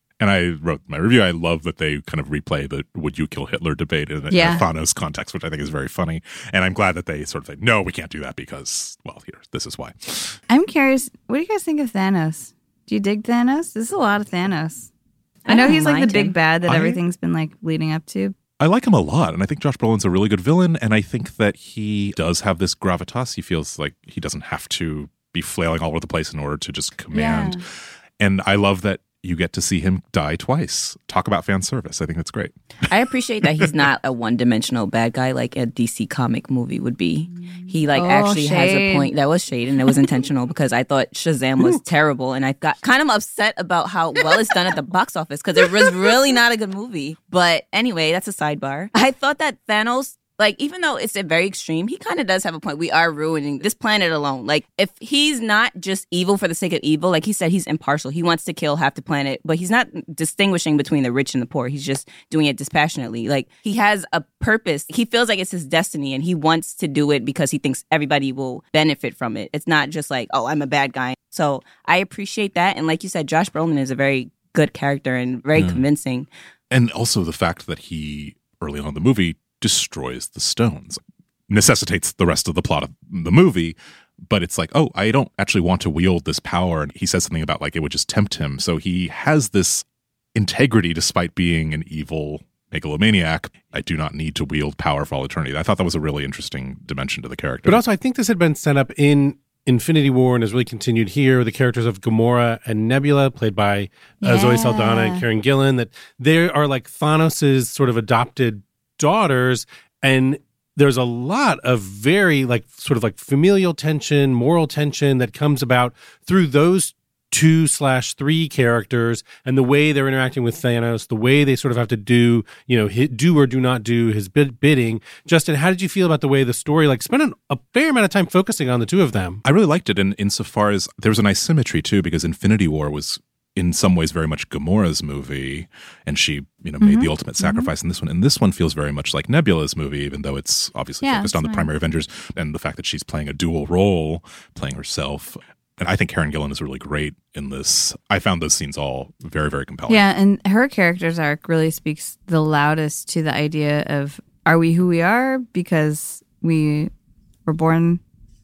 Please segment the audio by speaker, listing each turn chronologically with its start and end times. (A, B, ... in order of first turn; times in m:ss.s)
0:00.2-0:10.4 A
0:04.3-0:04.6 B
0:10.5-0:14.9 B
0:15.4-0:16.4 C
0:15.4-0:18.4 B
0:16.7-0:17.0 A
0:18.6-0:27.6 A
0:27.1-0:27.6 B
0:28.2-0:32.9 A
0:32.9-1:16.3 C
0:33.4-0:33.8 A
0:37.9-0:39.1 B
1:15.5-1:15.8 A
1:16.7-1:37.8 A
1:37.6-2:09.4 D
1:44.2-1:45.2 B
2:09.4-2:30.0 A
2:16.8-2:17.7 B
2:21.0-2:21.7 B
2:29.9-2:36.9 B
2:37.4-2:38.0 B